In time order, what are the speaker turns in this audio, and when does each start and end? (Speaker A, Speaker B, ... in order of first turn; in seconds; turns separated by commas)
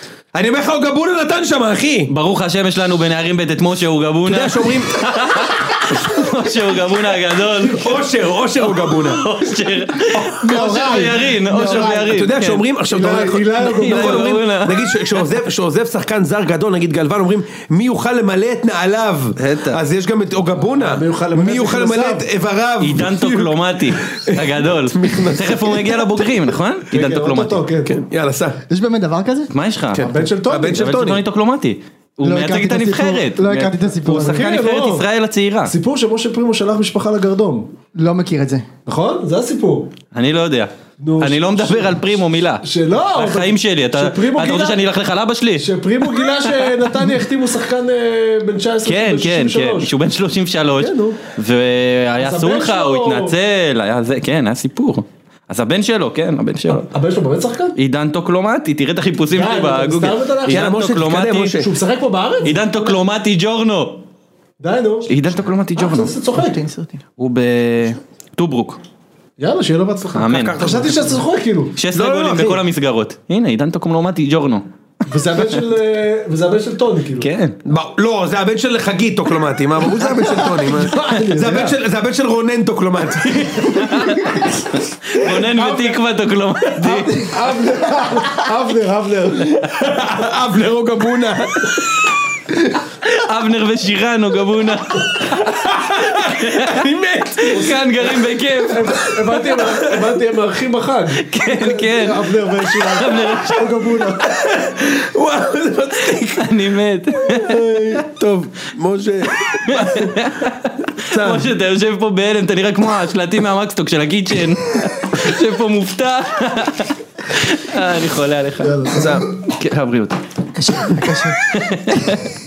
Speaker A: 0.3-2.1, Speaker B: 2.1-8.1, Speaker A: 4.2-5.0, Speaker A: 7.6-9.2, Speaker B: 8.6-12.6, Speaker C: 10.2-12.2, Speaker A: 11.7-23.5, Speaker D: 12.9-14.4, Speaker B: 13.6-15.3, Speaker B: 19.4-19.8, Speaker D: 20.6-22.2, Speaker B: 22.8-27.7, Speaker A: 24.1-26.3, Speaker D: 26.9-28.0, Speaker A: 27.9-28.6, Speaker C: 28.7-29.5, Speaker B: 29.5-30.1, Speaker A: 29.9-31.2, Speaker D: 30.0-30.9, Speaker B: 30.7-35.7, Speaker C: 32.2-34.5, Speaker D: 34.0-35.1, Speaker D: 35.6-37.7, Speaker C: 38.0-38.6, Speaker D: 38.9-39.9, Speaker B: 40.1-46.7, Speaker D: 41.0-42.0, Speaker D: 42.6-44.8, Speaker D: 45.6-49.9, Speaker B: 48.9-56.9, Speaker D: 50.8-51.2, Speaker D: 52.2-53.3, Speaker D: 56.7-57.7, Speaker B: 57.8-61.6, Speaker D: 59.3-60.7, Speaker A: 60.5-61.7, Speaker D: 61.6-62.7, Speaker B: 62.4-64.0, Speaker D: 64.6-65.2, Speaker B: 65.1-66.1, Speaker D: 65.7-66.6, Speaker C: 66.4-67.0, Speaker B: 67.2-68.8, Speaker D: 69.4-71.7, Speaker B: 70.1-70.6, Speaker A: 70.3-71.2, Speaker B: 71.8-74.6, Speaker A: 71.9-72.6, Speaker D: 75.1-77.3, Speaker B: 77.2-77.5, Speaker A: 77.7-83.8, Speaker D: 80.4-81.8, Speaker B: 83.7-84.4, Speaker D: 83.8-84.1, Speaker B: 85.1-87.3, Speaker D: 85.5-85.9, Speaker D: 86.8-89.7, Speaker A: 89.7-91.8, Speaker B: 93.0-99.2, Speaker A: 95.4-97.8, Speaker D: 97.5-104.3, Speaker B: 101.2-103.7, Speaker A: 104.2-106.5, Speaker B: 106.3-107.6, Speaker A: 107.3-110.1, Speaker D: 107.5-108.0, Speaker B: 109.6-120.2, Speaker A: 111.1-111.5, Speaker D: 118.6-119.3, Speaker A: 118.9-119.3, Speaker C: 120.5-122.2, Speaker B: 121.5-122.2